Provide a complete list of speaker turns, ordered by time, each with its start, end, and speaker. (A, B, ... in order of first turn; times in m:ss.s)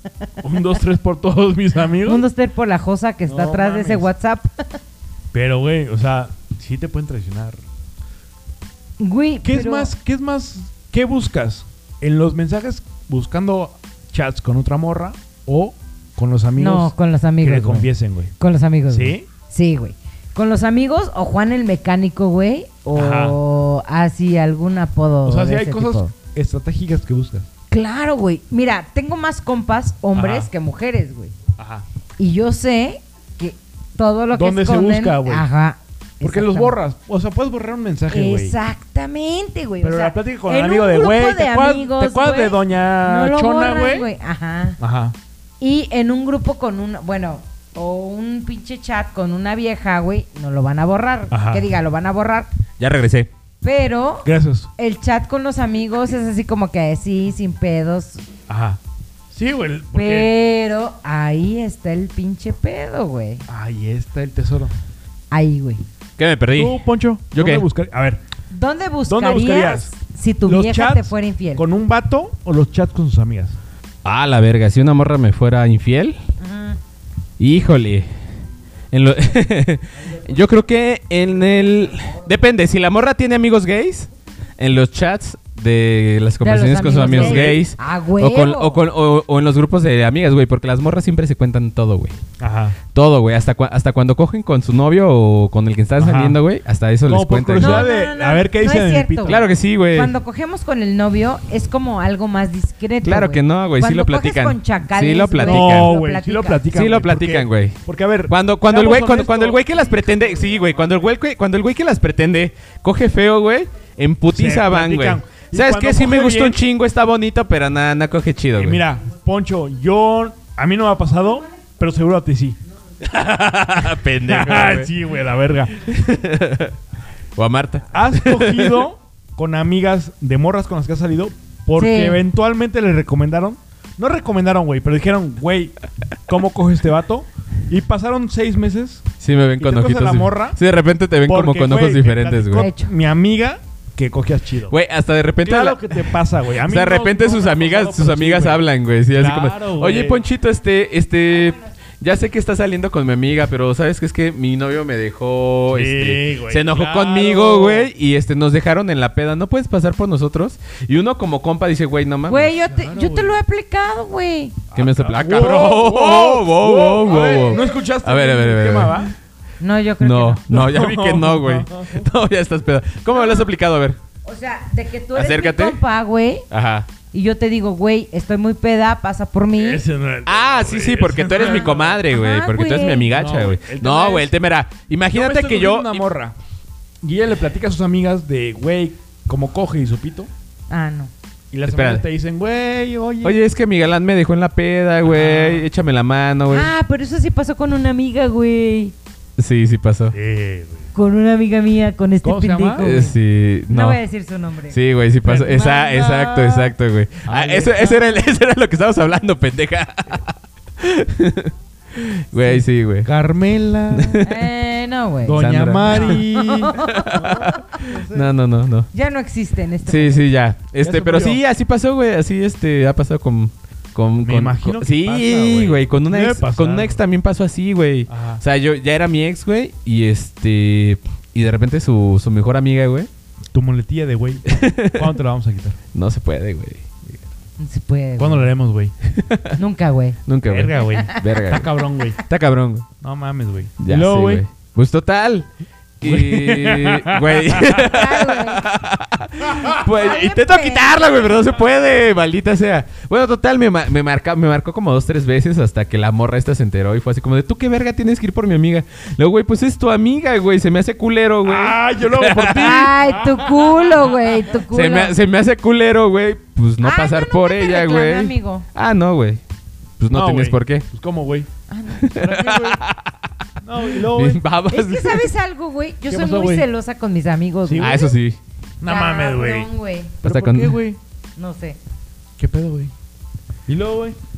0:00.4-0:02.3 A
0:02.0-0:04.8 B
0:03.3-0:04.1 A
0:05.3-0:07.6 A
0:09.0-0:09.9 B
0:09.4-0:18.3 A
0:16.6-0:26.1 B
0:18.9-0:19.3 A
0:22.9-0:23.4 A
0:25.2-0:27.5 A
0:27.7-0:31.4 B
0:30.1-0:30.5 A
0:31.6-0:31.8 A
0:32.2-0:36.8 B
0:34.3-0:35.5 A
0:36.2-0:38.6 A
0:38.1-0:44.8 B
0:39.8-0:44.1 A
0:44.8-0:45.2 A
0:45.6-0:52.5 B
0:51.3-0:51.6 A
0:52.8-0:53.3 C
0:53.6-0:58.2 B
0:54.2-0:54.7 A
0:58.5-0:58.8 A
0:59.3-1:00.3 A
0:59.9-1:03.5 B
1:03.5-1:04.7 A
1:05.3-1:05.8 B
1:06.2-1:06.8 C
1:06.5-1:08.2 A
1:07.3-1:07.7 C
1:08.5-1:11.7 B
1:09.1-1:09.9 A
1:10.5-1:13.6 A
1:14.0-1:16.2 C
1:16.4-1:16.8 B
1:17.4-1:18.1 C
1:18.9-1:32.2 C
1:26.4-1:28.8 B
1:26.9-1:27.6 A
1:32.4-1:32.8 A
1:32.9-1:37.9 C
1:36.0-1:36.4 A
1:37.1-1:39.5 A
1:37.6-1:39.4 B
1:39.3-1:40.1 C
1:39.9-1:46.6 B
1:43.0-1:45.9 C
1:45.4-1:50.4 A
1:46.7-1:58.8 C
1:54.3-1:56.6 A
1:58.6-2:02.6 A
2:03.0-2:04.9 C
2:04.2-2:05.8 A
2:05.8-2:06.7 C
2:07.4-2:08.8 C
2:07.9-2:15.7 A
2:11.8-2:12.2 B
2:16.3-2:20.6 A
2:19.2-2:22.7 C
2:21.3-2:24.8 A
2:22.5-2:22.9 B
2:24.7-2:42.5 C
2:25.4-2:30.2 A
2:35.7-2:37.9 A
2:42.3-2:44.6 B
2:42.6-2:43.4 A
2:44.7-2:49.1 C
2:44.7-2:49.1 A
2:49.6-2:50.4 B
2:50.0-2:54.0 C
2:50.5-2:52.1 A
2:53.1-2:53.5 B
2:54.2-2:56.5 B
2:55.1-2:55.8 C
2:56.5-2:56.9 C
2:57.1-2:59.8 B
2:59.6-3:02.0 A
3:00.2-3:06.0 C
3:01.4-3:03.1 B
3:03.1-3:04.3 A
3:05.1-3:06.4 A
3:07.0-3:10.3 A
3:10.7-3:11.1 B
3:11.5-3:13.4 A
3:11.7-3:12.0 C
3:13.2-3:16.7 C
3:15.0-3:15.7 A
3:16.5-3:18.9 B
3:19.4-3:20.2 C
3:20.1-3:20.9 A
3:20.9-3:23.2 B
3:22.2-3:22.9 A
3:22.8-3:24.0 C
3:23.7-3:24.8 B
3:24.7-3:33.1 C
3:25.2-3:26.6 A
3:26.2-3:26.6 B
3:27.3-3:28.2 A
3:33.0-3:34.3 A
3:33.9-3:34.3 C
3:34.2-3:37.6 B
3:35.2-3:38.3 A
3:35.4-3:36.2 C
3:36.8-3:38.9 C
3:38.9-3:40.2 B
3:39.9-3:53.1 C
3:40.8-3:41.4 A
3:44.2-3:47.0 A
3:48.1-3:48.4 A
3:53.5-3:55.8 A
3:54.5-3:55.1 C
3:55.9-3:57.1 C
3:57.6-3:58.5 B
3:58.2-3:58.9 A
3:59.1-3:59.5 C
3:59.6-4:00.2 B
4:00.3-4:02.9 C
4:00.5-4:02.2 A
4:03.0-4:04.4 A
4:03.8-4:05.5 C
4:06.0-4:22.9 C
4:06.0-4:08.0 A
4:07.8-4:08.7 B
4:09.8-4:11.3 B
4:21.4-4:24.1 A
4:22.6-4:25.2 B
4:24.7-4:29.4 C
4:26.8-4:28.6 B
4:30.0-4:30.9 C
4:30.1-4:31.5 A
4:31.7-4:32.2 B
4:32.0-4:33.1 C
4:32.1-4:32.8 A
4:33.6-4:34.4 A
4:34.0-4:35.3 C
4:34.7-4:38.1 B
4:36.1-4:36.7 A
4:37.6-4:38.1 A
4:37.8-4:38.4 C
4:38.8-4:39.7 A
4:38.8-4:40.2 B
4:40.2-4:41.0 A
4:40.2-4:40.8 C
4:41.4-4:41.8 B
4:42.4-4:42.9 A
4:43.7-4:44.2 A